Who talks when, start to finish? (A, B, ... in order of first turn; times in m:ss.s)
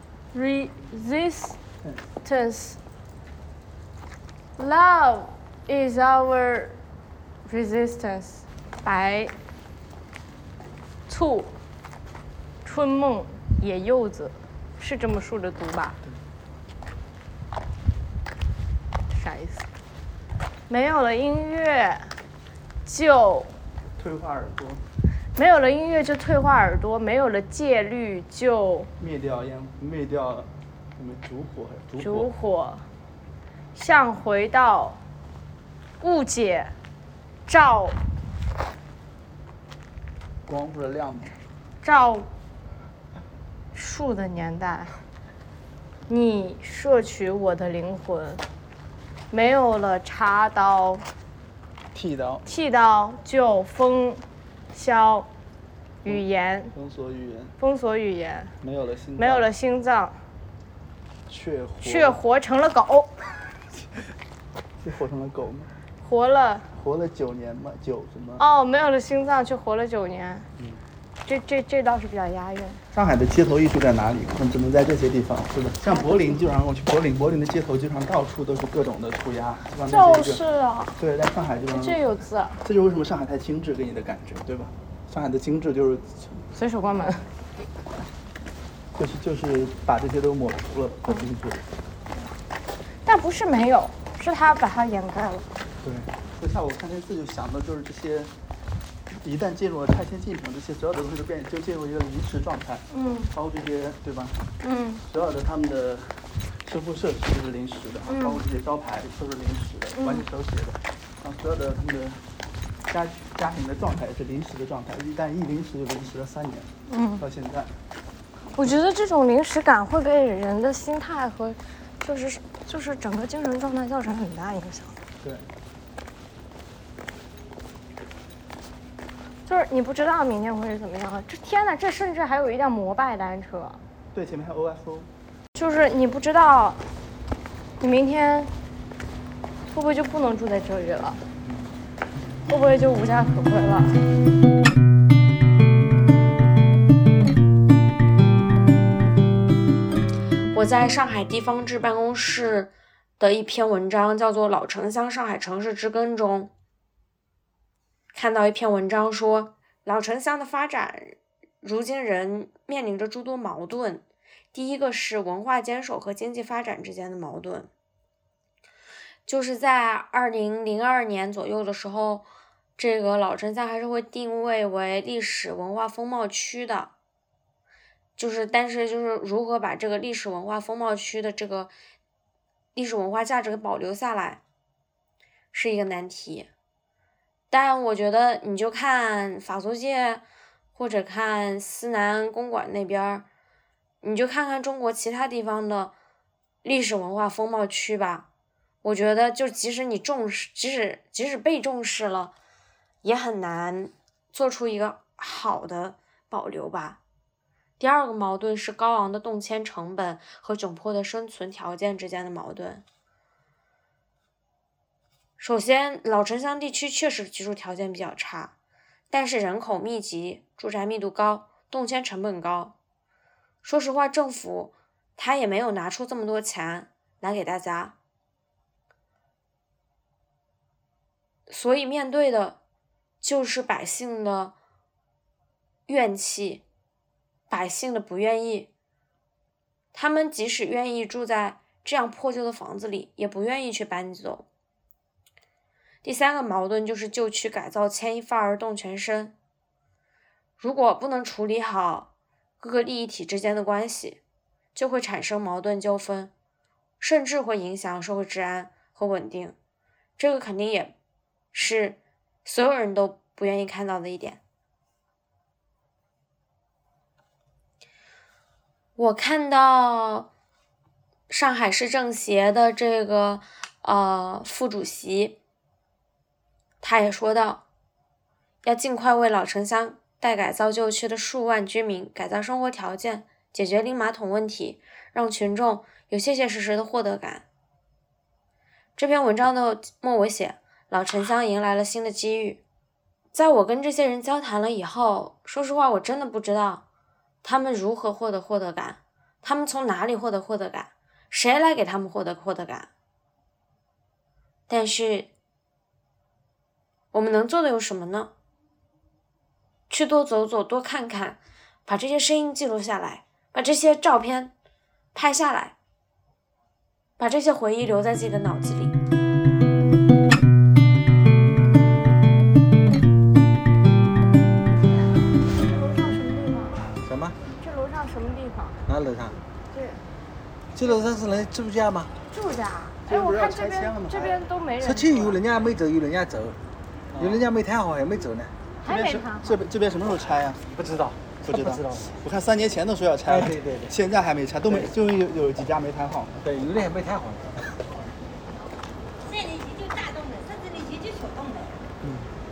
0:00.3-0:01.6 A
0:01.8-0:02.1 B
0:02.2-0:02.8 A
0:04.6-0:06.8 A
0:07.4-0:09.3 A
0:11.1-0:11.6 A
0:12.6-0:16.0 A
0:19.1-0:19.6 A
0:20.7-0:22.1 A
0:22.8-0:23.5 A
0:24.0-0:24.8 B
0:25.4-0:28.9 A
0:29.0-0:32.3 B
0:32.0-0:32.8 A
0:33.7-0:35.0 A
0:36.0-0:36.7 A
0:37.5-0:38.0 A
0:40.4-0:41.4 B
0:41.8-0:42.3 A
0:43.7-0:44.9 A
0:46.1-0:48.4 A
0:49.3-0:51.0 A
0:51.9-0:52.4 B
0:52.4-0:55.3 A
0:56.0-0:56.7 A
0:56.0-0:57.5 B
0:57.6-0:58.5 A
0:58.6-0:59.5 B
0:59.2-1:00.2 A
1:01.3-1:02.2 B
1:01.8-1:03.1 A
1:04.8-1:05.7 B
1:06.0-1:06.7 A
1:06.7-1:08.4 B
1:08.4-1:10.5 A
1:11.2-1:12.8 A
1:12.9-1:20.4 B
1:15.8-1:16.3 A
1:19.9-1:21.0 A
1:21.0-1:22.0 B
1:21.7-1:22.6 A
1:22.6-1:26.4 B
1:26.5-1:27.2 A
1:28.9-1:31.6 B
1:33.0-1:35.5 A
1:35.8-1:38.3 B
1:39.1-1:44.4 B
1:42.9-1:43.3 A
1:44.6-1:45.0 A
1:45.0-1:52.2 B
1:48.1-1:48.4 A
1:49.9-1:50.2 A
1:52.9-1:57.7 B
1:56.9-1:57.2 A
1:58.5-2:05.0 A
2:09.4-2:13.8 A
2:14.1-2:15.1 B
2:15.5-2:16.8 A
2:17.8-2:18.5 A
2:19.7-2:21.2 A
2:22.5-2:24.0 A
2:30.5-2:36.5 C
2:38.1-2:47.7 C
2:49.2-2:52.2 C
2:52.8-2:56.9 C
2:58.2-3:01.7 C
3:02.7-3:04.4 C
3:05.5-3:06.5 C
3:07.5-3:10.2 C
3:10.7-3:13.2 C
3:14.0-3:15.9 C
3:16.6-3:18.3 C
3:18.8-3:22.3 C
3:23.0-3:27.0 C
3:27.8-3:32.8 C
3:35.4-3:38.5 C
3:39.1-3:42.7 C
3:43.6-3:47.9 C
3:51.5-3:52.6 C
3:53.2-3:54.5 C
3:55.9-3:56.6 C
3:57.5-3:58.7 C
3:59.9-4:04.4 C
4:06.0-4:09.3 C
4:10.6-4:12.1 C
4:12.6-4:14.2 C
4:14.7-4:16.3 C
4:17.0-4:19.6 C
4:20.2-4:20.9 C
4:21.5-4:24.4 C
4:29.0-4:30.3 C
4:31.3-4:35.4 C
4:36.8-4:37.6 C
4:38.6-4:47.4 C
4:49.0-4:52.6 C
4:53.3-4:56.8 C
4:57.4-5:02.9 C
5:04.7-5:05.3 C
5:07.1-5:08.3 C
5:09.9-5:14.5 C
5:15.1-5:15.7 C
5:17.2-5:19.0 C
5:25.5-5:26.8 A
5:27.0-5:27.4 D
5:27.5-5:28.8 A
5:28.9-5:29.4 D
5:29.7-5:30.0 A
5:30.7-5:32.1 D
5:32.3-5:35.4 A
5:33.0-5:34.4 B
5:34.8-5:36.6 D
5:37.1-5:38.5 D
5:38.8-5:39.6 A
5:38.8-5:40.6 B
5:40.7-5:42.1 D
5:41.4-5:46.4 B
5:43.3-5:43.9 D
5:44.7-5:44.9 D
5:46.4-5:47.5 D
5:49.2-5:51.8 E
5:52.0-5:52.3 B